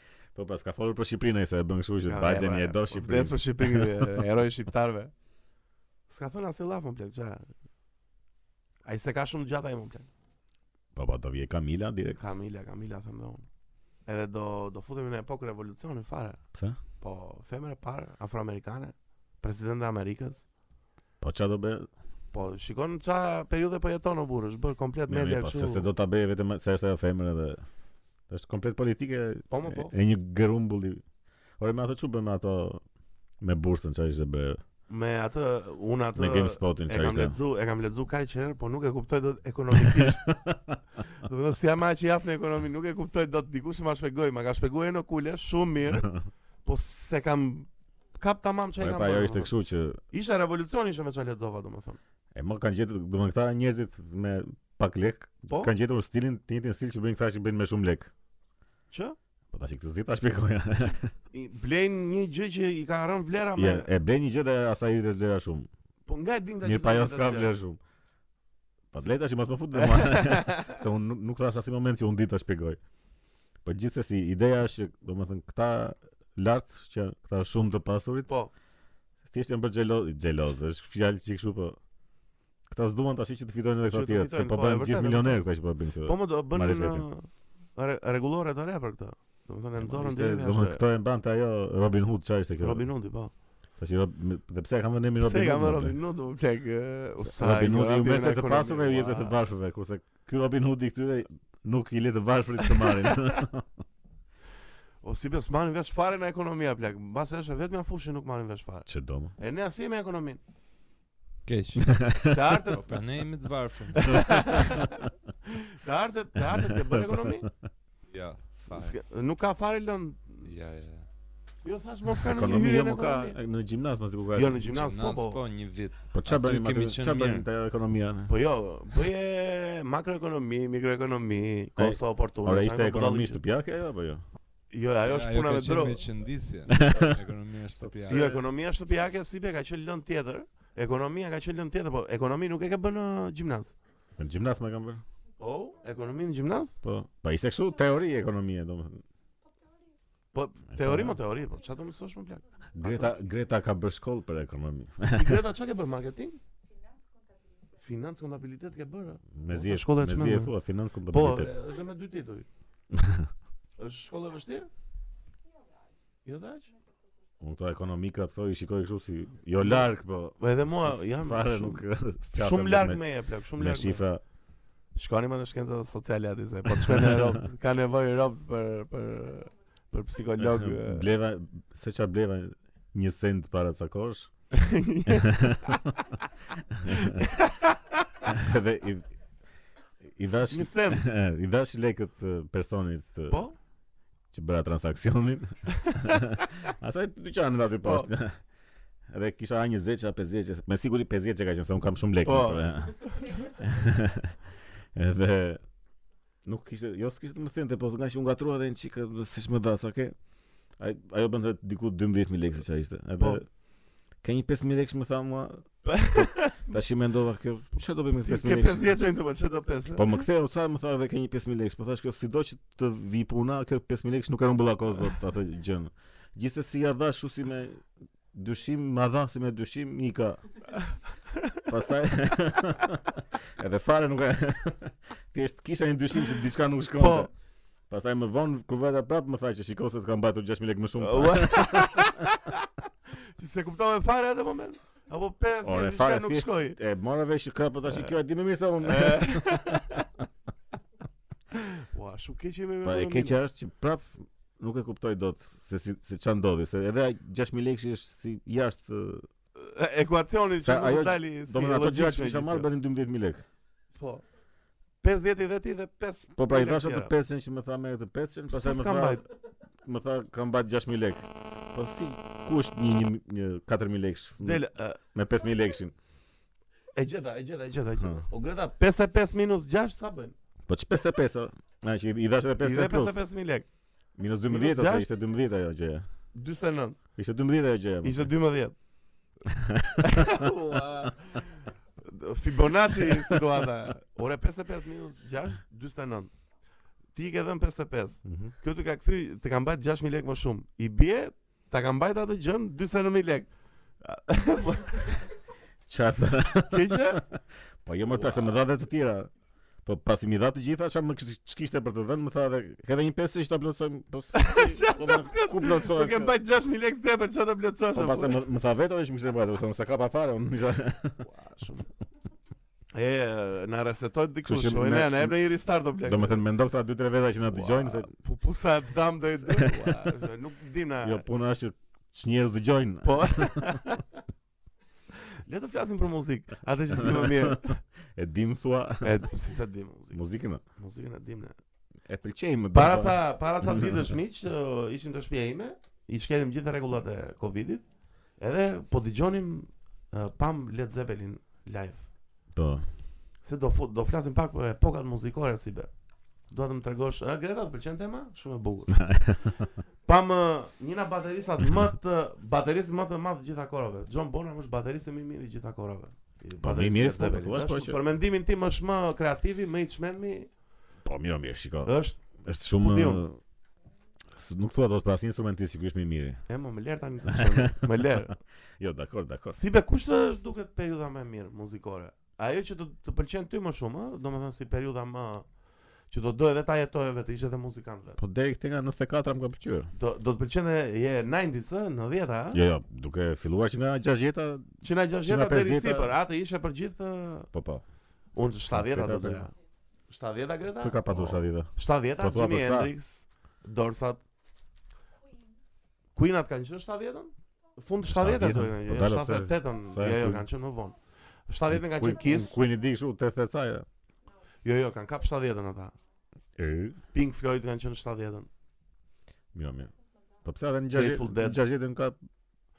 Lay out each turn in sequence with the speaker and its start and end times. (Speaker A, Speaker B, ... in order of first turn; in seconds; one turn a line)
Speaker A: 0.3-4.1
Speaker B: 2.1-5.1
Speaker B: 6.1-7.5
Speaker B: 8.8-10.1
Speaker A: 10.9-12.2
Speaker B: 12.2-13.5
Speaker B: 14.1-16.4
Speaker A: 16.5-16.8
Speaker B: 17.0-20.5
Speaker A: 21.2-21.9
Speaker B: 22.3-25.9
Speaker A: 25.1-27.6
Speaker A: 28.3-31.0
Speaker B: 29.5-29.9
Speaker A: 31.6-32.8
Speaker A: 33.4-34.6
Speaker B: 34.9-40.3
Speaker A: 36.2-37.4
Speaker A: 39.8-40.8
Speaker B: 41.1-46.1
Speaker B: 46.6-49.5
Speaker A: 48.8-50.0
Speaker B: 50.1-52.0
Speaker A: 52.3-58.1
Speaker B: 58.9-59.2
Speaker A: 59.5-61.1
Speaker B: 61.3-63.9
Speaker A: 63.6-65.7
Speaker B: 66.1-67.6
Speaker A: 66.6-67.8
Speaker A: 68.9-72.8
Speaker B: 69.8-70.8
Speaker A: 73.7-78.3
Speaker A: 79.3-81.8
Speaker A: 82.7-87.1
Speaker B: 83.9-85.4
Speaker B: 86.0-90.8
Speaker A: 89.8-92.9
Speaker B: 92.6-93.3
Speaker A: 93.8-96.0
Speaker B: 95.2-99.4
Speaker A: 97.2-103.7
Speaker B: 102.8-103.4
Speaker B: 105.0-110.4
Speaker A: 108.9-109.3
Speaker C: 111.5-112.0
Speaker A: 111.9-112.4
Speaker B: 112.3-112.9
Speaker C: 112.7-114.7
Speaker B: 114.0-117.5
Speaker A: 116.7-117.5
Speaker C: 118.1-119.0
Speaker B: 118.7-120.5
Speaker C: 120.4-121.1
Speaker B: 121.6-123.4
Speaker A: 122.2-124.7
Speaker B: 124.3-125.4
Speaker C: 124.7-127.5
Speaker A: 126.1-128.3
Speaker B: 128.3-133.4
Speaker A: 131.8-134.2
Speaker B: 134.7-136.1
Speaker C: 135.1-138.3
Speaker A: 136.7-137.2
Speaker A: 138.0-138.4
Speaker B: 138.1-143.8
Speaker A: 144.2-145.0
Speaker B: 145.4-146.8
Speaker A: 146.8-149.0
Speaker B: 150.3-153.2
Speaker A: 150.7-151.2
Speaker A: 152.8-155.4
Speaker B: 155.1-156.4
Speaker B: 157.8-160.5
Speaker A: 159.3-161.5
Speaker B: 161.1-162.5
Speaker A: 162.9-163.3
Speaker B: 163.8-164.7
Speaker B: 166.2-166.7
Speaker A: 167.4-173.0
Speaker B: 169.6-169.9
Speaker B: 170.4-174.0
Speaker A: 173.6-174.2
Speaker B: 174.9-181.1
Speaker A: 176.9-177.3
Speaker A: 180.4-184.3
Speaker B: 184.5-185.8
Speaker A: 185.1-185.9
Speaker A: 186.8-187.2
Speaker B: 186.9-188.3
Speaker A: 188.2-189.1
Speaker A: 190.0-193.4
Speaker B: 190.5-191.1
Speaker B: 193.3-193.6
Speaker A: 194.3-198.4
Speaker B: 195.7-196.4
Speaker B: 197.8-198.1
Speaker A: 199.1-204.4
Speaker B: 202.2-203.4
Speaker A: 204.9-205.6
Speaker A: 206.4-210.2
Speaker A: 210.8-213.5
Speaker A: 214.2-219.0
Speaker B: 215.8-216.7
Speaker B: 218.2-220.2
Speaker A: 219.9-227.8
Speaker A: 228.3-230.4
Speaker B: 231.3-231.6
Speaker A: 231.7-237.3
Speaker B: 237.0-237.3
Speaker A: 237.9-242.2
Speaker B: 241.0-242.7
Speaker B: 243.4-246.8
Speaker A: 245.6-249.8
Speaker B: 247.9-248.1
Speaker B: 248.8-250.1
Speaker B: 251.6-253.4
Speaker A: 252.8-259.3
Speaker B: 259.6-262.7
Speaker A: 260.6-263.4
Speaker B: 263.9-264.2
Speaker B: 265.0-267.1
Speaker A: 266.4-269.2
Speaker B: 268.5-269.2
Speaker A: 269.8-275.9
Speaker B: 274.4-275.0
Speaker B: 276.9-280.4
Speaker A: 278.0-278.2
Speaker A: 280.7-283.2
Speaker B: 282.6-283.7
Speaker A: 284.2-286.1
Speaker B: 284.5-285.1
Speaker B: 286.3-287.0
Speaker A: 287.2-288.3
Speaker B: 288.0-288.8
Speaker A: 289.5-290.5
Speaker B: 290.0-296.3
Speaker B: 297.1-303.5
Speaker A: 298.2-298.5
Speaker B: 304.0-305.3
Speaker A: 305.9-307.3
Speaker B: 306.7-307.2
Speaker A: 307.8-309.3
Speaker B: 308.1-308.6
Speaker A: 309.9-316.4
Speaker B: 314.3-318.4
Speaker A: 317.9-321.2
Speaker B: 321.2-321.9
Speaker B: 322.9-326.4
Speaker A: 324.4-325.4
Speaker A: 326.0-328.1
Speaker B: 327.5-331.2
Speaker A: 329.5-329.8
Speaker A: 331.0-333.8
Speaker B: 333.0-334.1
Speaker B: 335.4-337.8
Speaker A: 336.9-339.3
Speaker B: 339.0-340.2
Speaker A: 340.1-340.6
Speaker B: 340.8-341.6
Speaker A: 342.1-344.0
Speaker B: 342.7-347.9
Speaker B: 348.4-352.1
Speaker A: 352.6-352.9
Speaker B: 353.4-355.9
Speaker B: 356.5-359.1
Speaker A: 359.0-359.6
Speaker B: 360.1-370.5
Speaker A: 366.6-368.0
Speaker A: 371.0-373.4
Speaker B: 371.9-372.2
Speaker B: 372.8-373.2
Speaker A: 374.3-376.4
Speaker B: 376.5-378.4
Speaker A: 377.3-377.9
Speaker A: 378.8-379.6
Speaker B: 379.5-385.5
Speaker B: 386.1-388.2
Speaker A: 388.2-389.9
Speaker B: 390.0-392.6
Speaker A: 392.5-396.1
Speaker B: 394.8-397.5
Speaker A: 397.5-397.8
Speaker B: 398.3-399.5
Speaker A: 398.7-399.5
Speaker B: 400.1-404.2
Speaker A: 400.8-402.9
Speaker B: 406.1-412.6
Speaker A: 408.0-410.4
Speaker A: 411.7-413.9
Speaker B: 414.6-415.9
Speaker A: 416.6-417.0
Speaker B: 417.1-418.5
Speaker A: 419.5-419.9
Speaker A: 420.4-422.2
Speaker B: 420.9-421.6